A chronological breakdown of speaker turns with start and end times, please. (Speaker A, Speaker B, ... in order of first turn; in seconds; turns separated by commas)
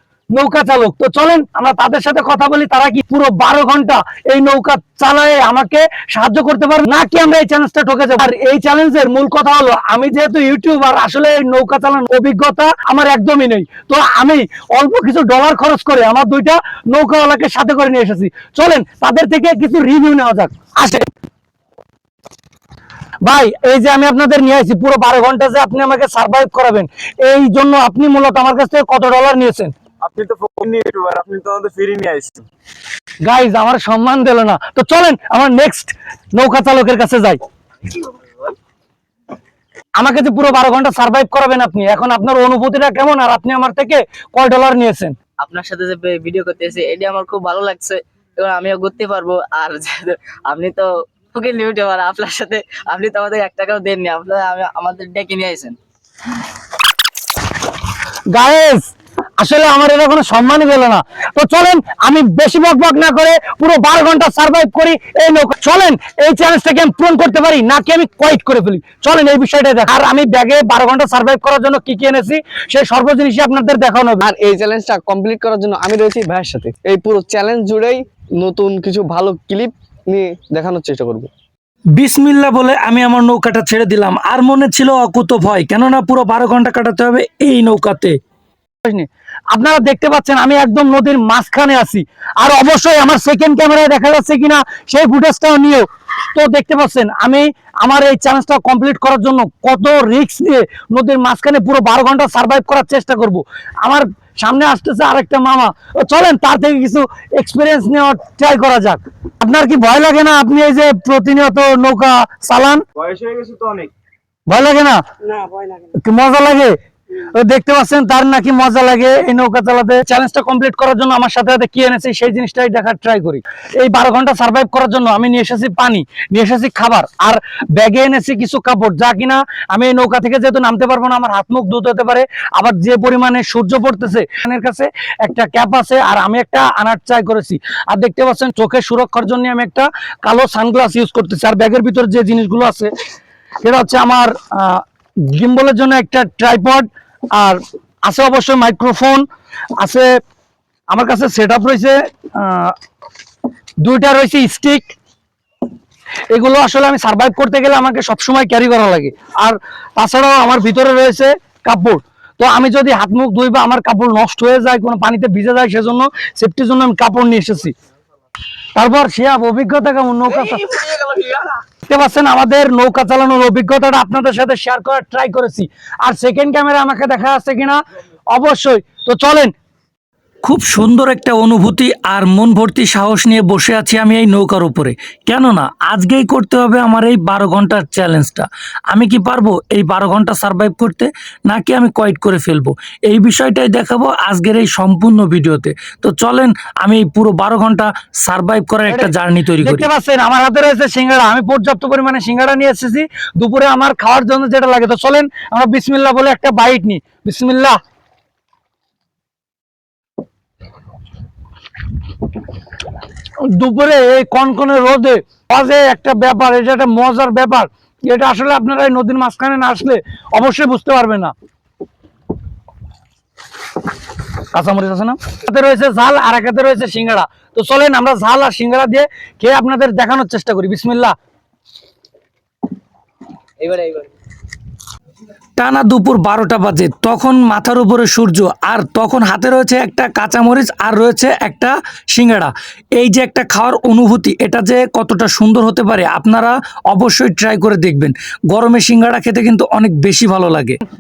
Speaker A: 0.3-21.1, Speaker A: 23.2-29.7, Speaker B: 30.0-32.4, Speaker A: 33.2-37.4, Speaker A: 40.0-45.1, Speaker C: 45.4-55.8, Speaker A: 58.3-58.9, Speaker A: 59.4-74.2, Speaker D: 74.2-81.3, Speaker E: 82.0-88.2, Speaker A: 88.8-112.8, Speaker B: 113.0-113.9, Speaker A: 114.5-115.0, Speaker D: 115.3-115.7, Speaker A: 116.0-116.7, Speaker A: 117.3-142.9, Speaker A: 143.6-149.2, Speaker A: 149.8-150.1, Speaker A: 150.9-152.7, Speaker A: 153.8-154.9, Speaker A: 156.3-167.7, Speaker A: 168.8-170.8, Speaker C: 170.9-171.5, Speaker A: 171.8-177.8, Speaker A: 178.3-179.5, Speaker E: 180.4-199.9, Speaker A: 198.9-207.8, Speaker A: 213.6-221.3, Speaker A: 224.5-231.1, Speaker C: 233.6-234.1, Speaker E: 235.6-250.8